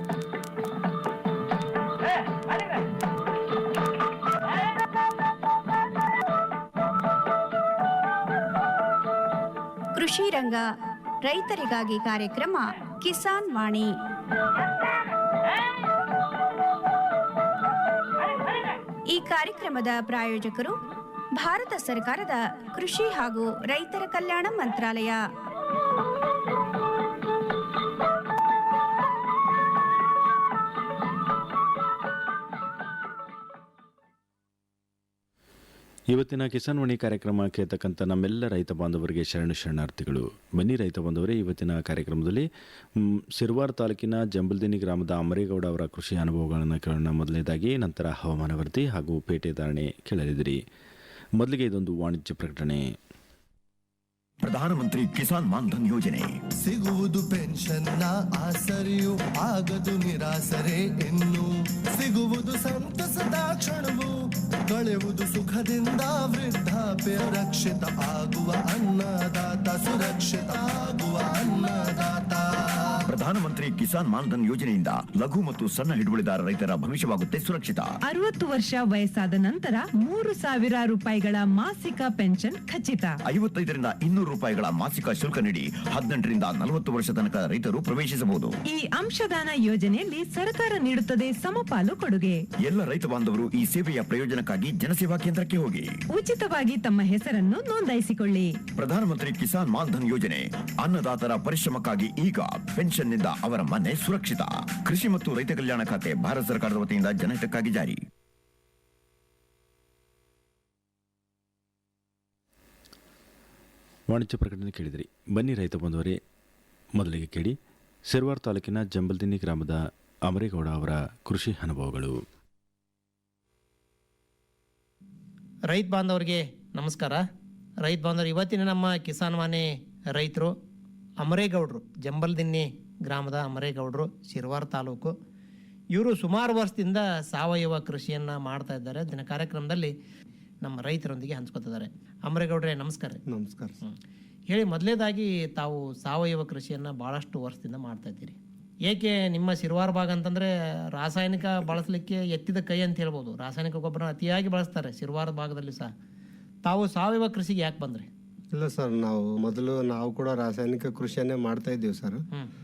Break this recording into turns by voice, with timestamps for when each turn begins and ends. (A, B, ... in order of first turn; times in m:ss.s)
0:09.9-0:14.0 A
0:19.1-0:20.8 A
0:21.3-0:25.3 A
0:36.1-0:42.5 B
0:43.0-0:50.6 B
0:51.4-0:52.8 B
0:54.4-0:56.3 C
0:56.6-1:13.1 D
1:13.1-1:18.0 C
1:18.1-1:23.1 E
1:23.2-1:28.6 C
1:28.7-1:32.4 E
1:32.6-1:36.0 C
1:36.2-1:38.4 E
1:38.8-1:48.0 C
1:54.1-1:56.2 B
1:56.9-1:57.6 B
1:58.1-2:02.2 B
2:05.7-2:07.2 F
2:07.8-2:10.5 F
2:11.2-2:15.1 F
2:15.9-2:19.9 F
2:20.6-2:23.2 F
2:23.2-2:23.8 G
2:24.5-2:35.9 F
2:36.6-2:38.1 F
2:38.5-2:42.2 G